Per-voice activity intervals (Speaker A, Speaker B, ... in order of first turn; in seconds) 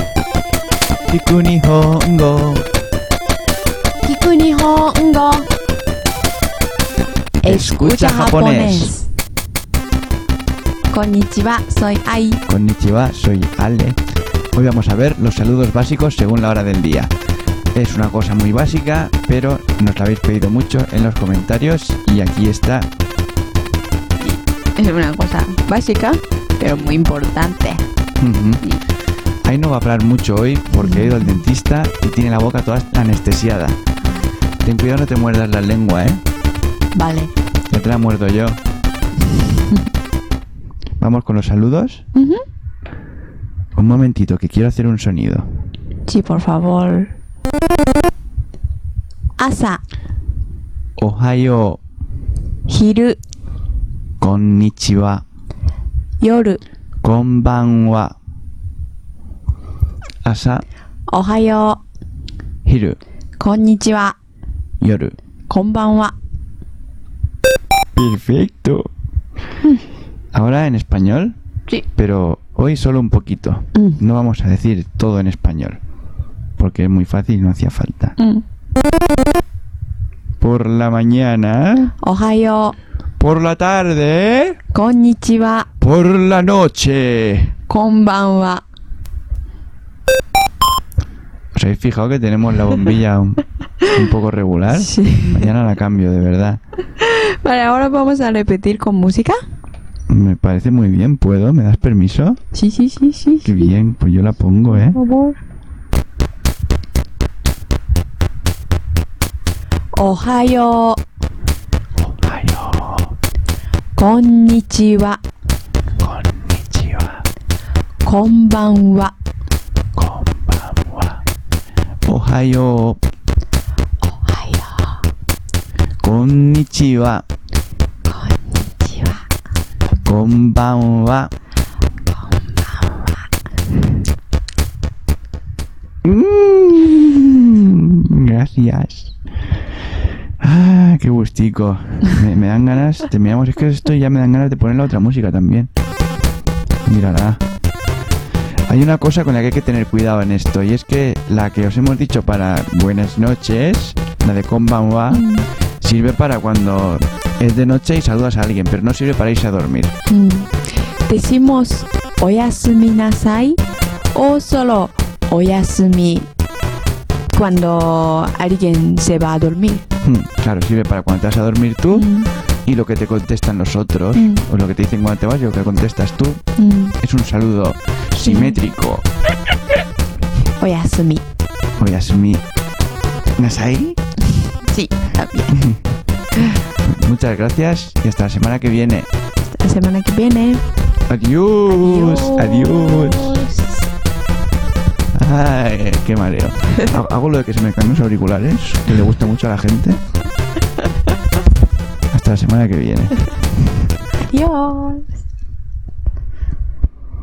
Speaker A: 1.1-2.7, 7.5-8.9, 12.5-14.0, 14.5-17.1, 17.8-22.9, 28.2-28.6, 29.4-33.8, 34.6-36.2, 37.7-38.6, 41.0-42.0, 43.8-45.5, 51.0-51.8, 54.2-55.2, 57.0-58.1, 60.2-60.6, 62.6-63.0, 64.8-65.2, 68.0-68.9, 70.3-71.3, 72.0-75.8, 76.6-78.2, 80.4-81.9, 83.2-84.6, 85.8-87.5, 91.5-96.6, 100.1-102.4, 103.4-105.0, 112.0-113.1, 116.0-117.2, 120.0-121.2, 122.0-123.0, 126.0-127.2, 130.0-131.3, 136.0-139.1, 140.4-145.7, 146.8-147.4, 148.7-155.2, 155.8-159.9, 170.0-172.1, 172.7-176.4, 177.0-179.1, 181.8-182.4, 183.4-184.0, 186.9-189.1, 191.1-193.4, 195.1-200.0, 202.1-203.2
Speaker B: 4.0-5.5, 7.4-9.1, 10.9-12.4, 24.2-27.8, 30.8-31.3, 37.0-37.3, 42.1-42.5, 46.1-47.1, 49.4-49.8, 52.7-53.2, 56.2-56.6, 61.1-61.8, 63.4-64.2, 65.5-66.2, 78.2-78.4, 82.0-82.8, 84.7-85.7, 87.7-88.6, 94.7-95.5, 97.0-99.4, 102.5-103.7, 104.7-105.4, 109.9-111.0, 114.0-115.2, 118.0-119.1, 124.0-125.0, 128.1-129.2, 132.4-133.1, 155.1-155.5, 160.1-163.6, 164.1-166.3, 167.3-169.9, 171.9-172.3, 174.2-174.4, 176.6-177.0, 178.2-178.6, 180.6-181.2, 184.6-185.6, 189.5-190.6, 191.7-193.8, 204.3-205.1